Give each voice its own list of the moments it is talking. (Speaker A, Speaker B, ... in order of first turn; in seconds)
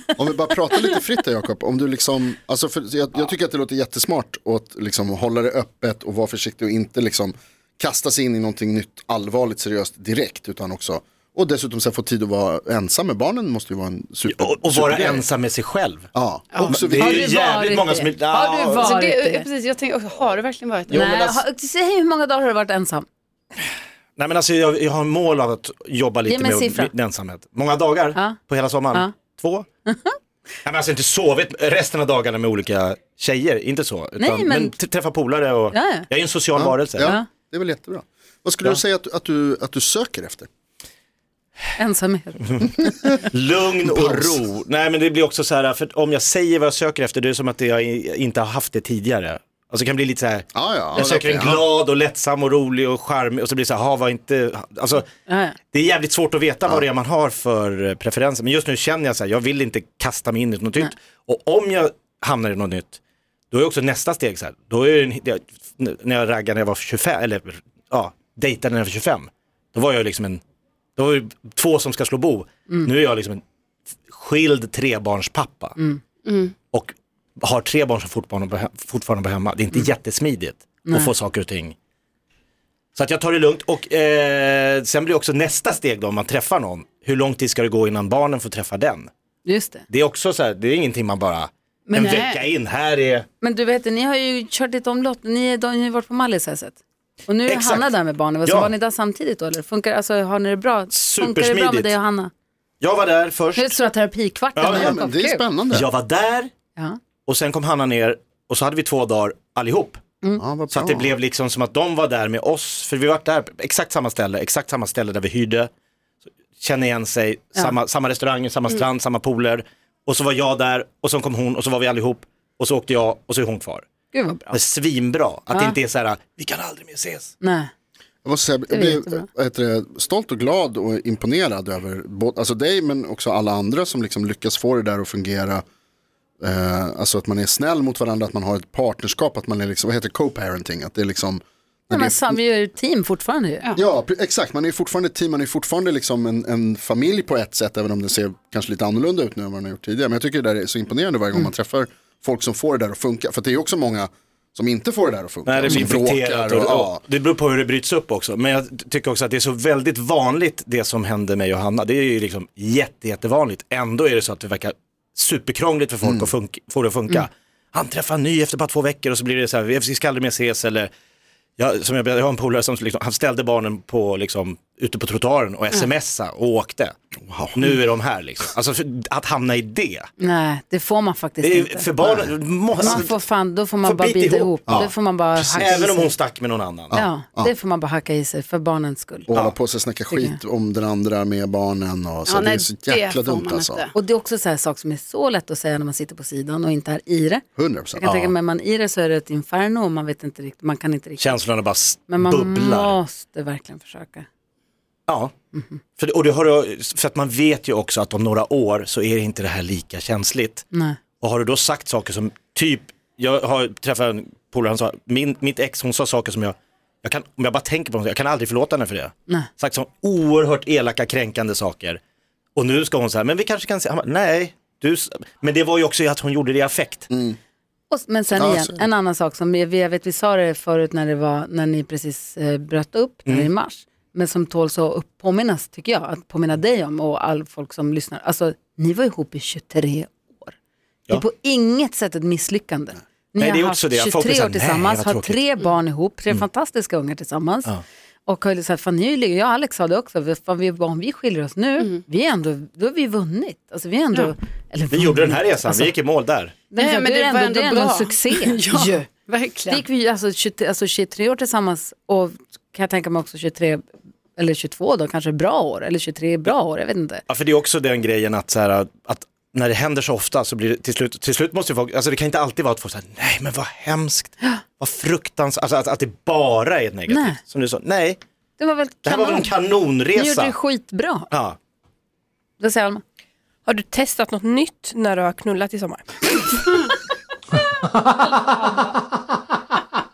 Speaker A: 0.2-15.3, 16.1-17.2, 36.6-40.5, 43.9-44.4, 50.5-51.6, 104.6-105.9, 110.4-111.1, 128.2-135.6, 136.4-142.4, 143.8-157.0, 166.0-166.3, 177.2-177.8, 186.9-187.5, 189.3-193.9, 197.6-198.1, 227.1-227.4, 228.3-228.8
Speaker B: 14.3-16.1, 16.7-18.9, 20.9-21.4, 24.2-29.7, 30.6-37.1, 43.2-55.0, 55.7-63.0, 63.5-70.4, 71.0-73.4, 74.1-75.8, 76.7-81.8, 83.0-89.1, 89.9-93.3, 97.5-97.9, 98.5-98.7, 100.9-102.0, 102.8-103.8, 104.5-105.0, 105.7-106.5, 107.3-110.0, 110.7-115.7, 116.6-123.8, 124.5-127.3, 155.4-170.9, 171.6-176.9, 177.5-180.1, 181.4-183.1, 183.8-187.0, 198.0-198.3, 201.2-203.0, 205.1-205.3, 206.0-210.7, 211.2-222.0, 222.6-227.1, 243.4-245.4, 254.9-256.6, 267.3-278.2, 279.1-280.6, 281.3-281.6
Speaker C: 16.5-16.8, 18.7-21.4, 76.3-76.5, 91.9-92.4, 192.3-193.9, 256.8-259.8
Speaker D: 16.7-19.5, 20.9-23.1, 26.2-26.9, 29.9-30.2, 34.2-34.8, 35.7-36.1, 37.0-37.3, 41.8-43.2, 55.3-55.6, 80.9-81.1, 89.5-89.8, 93.4-102.3, 103.6-105.4, 124.1-124.6, 127.4-127.7, 128.7-129.2, 141.9-143.7, 180.2-186.1, 186.9-189.3, 190.1-190.4, 193.9-197.4, 198.0-201.4, 202.1-204.3, 205.5-205.8, 210.7-211.0, 227.9-240.5, 241.1-247.8, 248.3-255.9, 256.7-259.1, 259.7-263.8, 264.4-267.2, 277.1-277.4, 278.6-279.5, 280.1-281.3, 282.6-283.0
Speaker E: 283.7-286.7